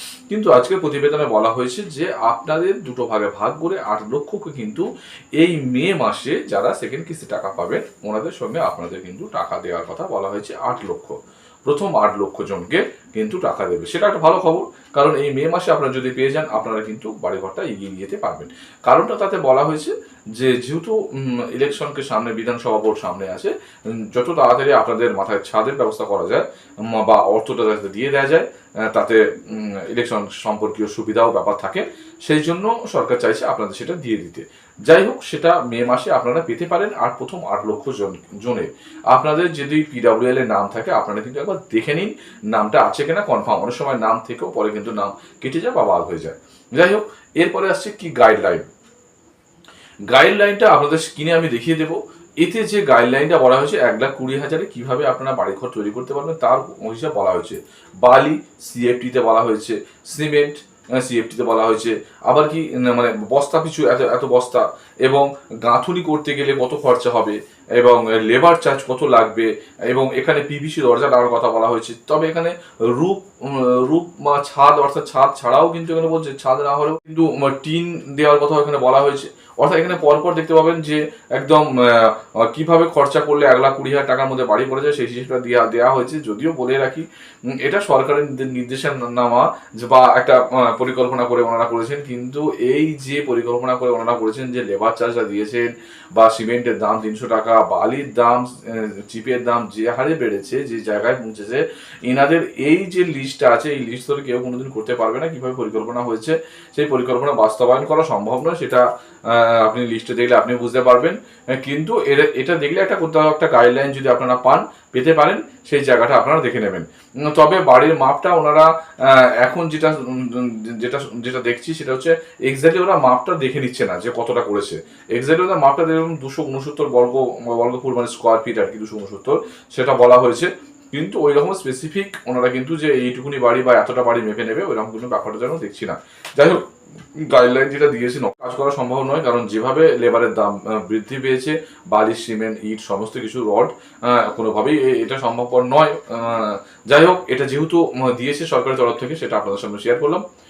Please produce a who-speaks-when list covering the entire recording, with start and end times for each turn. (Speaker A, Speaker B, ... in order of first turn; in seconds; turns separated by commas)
Speaker A: 0.3-48.7, Speaker A: 50.0-150.2